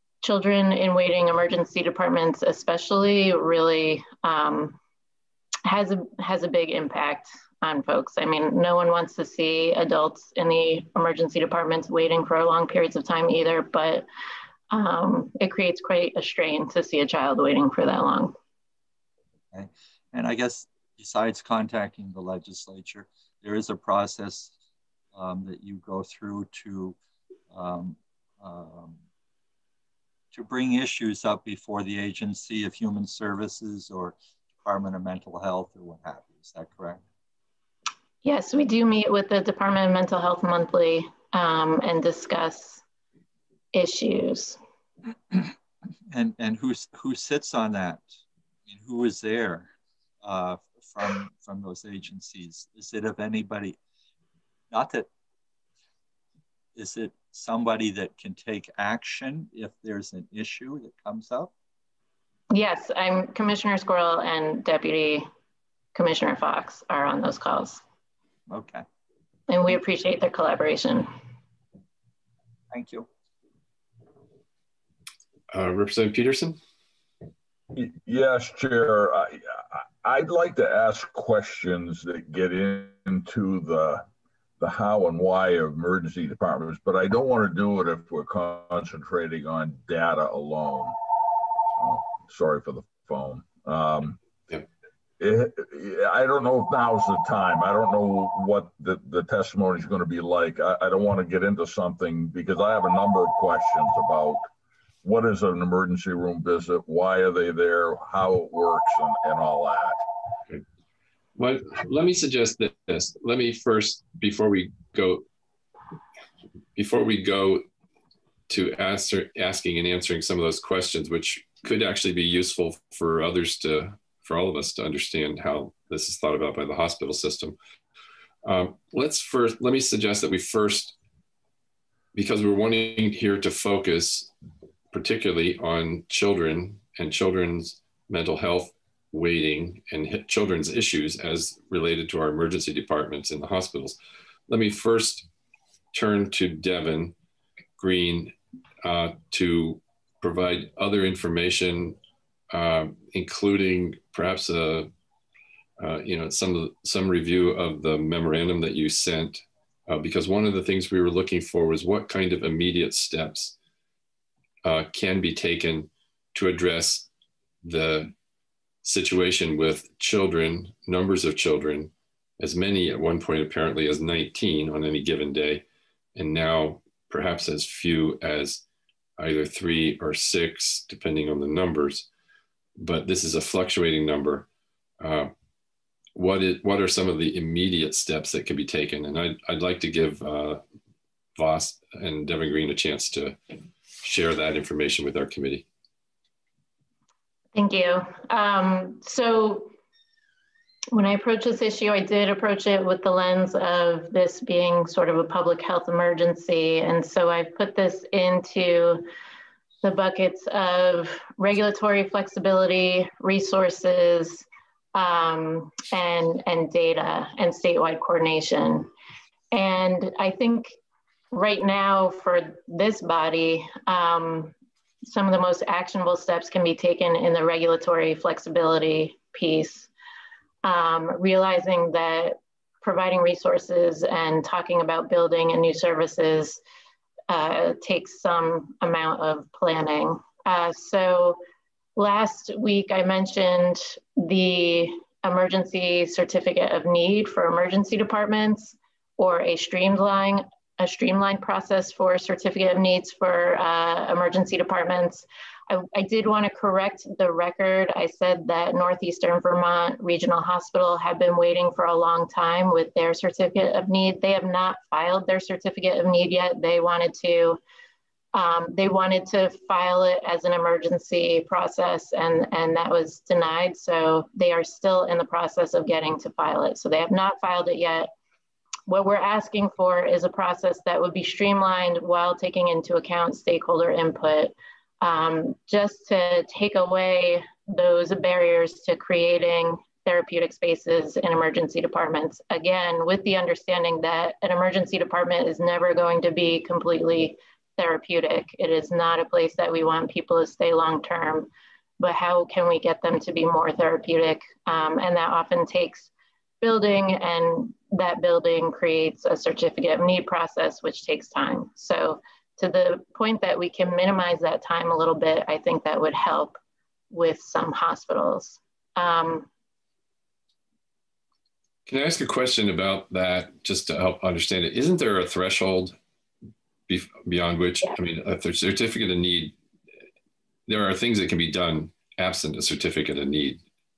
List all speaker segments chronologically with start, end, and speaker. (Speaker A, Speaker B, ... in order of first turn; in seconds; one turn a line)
Speaker A: 0.2-4.8
Speaker A: 5.7-14.1
Speaker A: 14.7-18.3
Speaker B: 19.5-24.5
Speaker B: 25.1-27.0
Speaker B: 27.5-29.0
Speaker B: 30.3-37.0
Speaker A: 38.2-42.8
Speaker A: 43.7-44.6
Speaker B: 46.1-48.1
Speaker B: 48.7-49.7
Speaker B: 50.2-53.8
Speaker B: 54.7-55.1
Speaker B: 56.8-61.5
Speaker A: 62.5-65.3
Speaker A: 66.0-67.8
Speaker B: 68.5-68.8
Speaker A: 69.5-71.1
Speaker B: 72.7-73.1
Speaker C: 75.5-76.6
Speaker D: 77.8-84.0
Speaker D: 84.6-91.0
Speaker D: 91.8-94.2
Speaker D: 95.2-104.5
Speaker D: 105.0-110.0
Speaker C: 111.4-115.2
Speaker C: 116.8-117.7
Speaker C: 118.5-127.6
Speaker C: 128.4-130.9
Speaker C: 132.1-134.3
Speaker C: 134.9-144.0
Speaker C: 144.5-145.3
Speaker C: 145.9-147.2
Speaker C: 147.8-152.0
Speaker C: 152.5-154.9
Speaker C: 155.8-163.6
Speaker C: 164.6-167.1
Speaker C: 167.6-168.1
Speaker C: 168.8-175.6
Speaker C: 176.2-178.6
Speaker C: 179.2-182.1
Speaker C: 182.8-184.5
Speaker C: 185.0-185.3
Speaker C: 186.2-190.6
Speaker C: 191.4-193.4
Speaker C: 194.0-195.7
Speaker A: 197.6-199.7
Speaker A: 200.9-209.1
Speaker A: 209.8-218.9
Speaker A: 219.5-220.8
Speaker A: 221.3-229.9
Speaker A: 230.6-236.6
Speaker A: 237.3-241.4
Speaker A: 242.0-267.6
Speaker A: 268.3-278.1
Speaker A: 278.9-301.5
Speaker A: 302.0-306.1
Speaker A: 306.6-316.6
Speaker A: 317.1-319.5
Speaker C: 321.9-325.9
Speaker C: 326.9-329.6
Speaker C: 330.7-333.6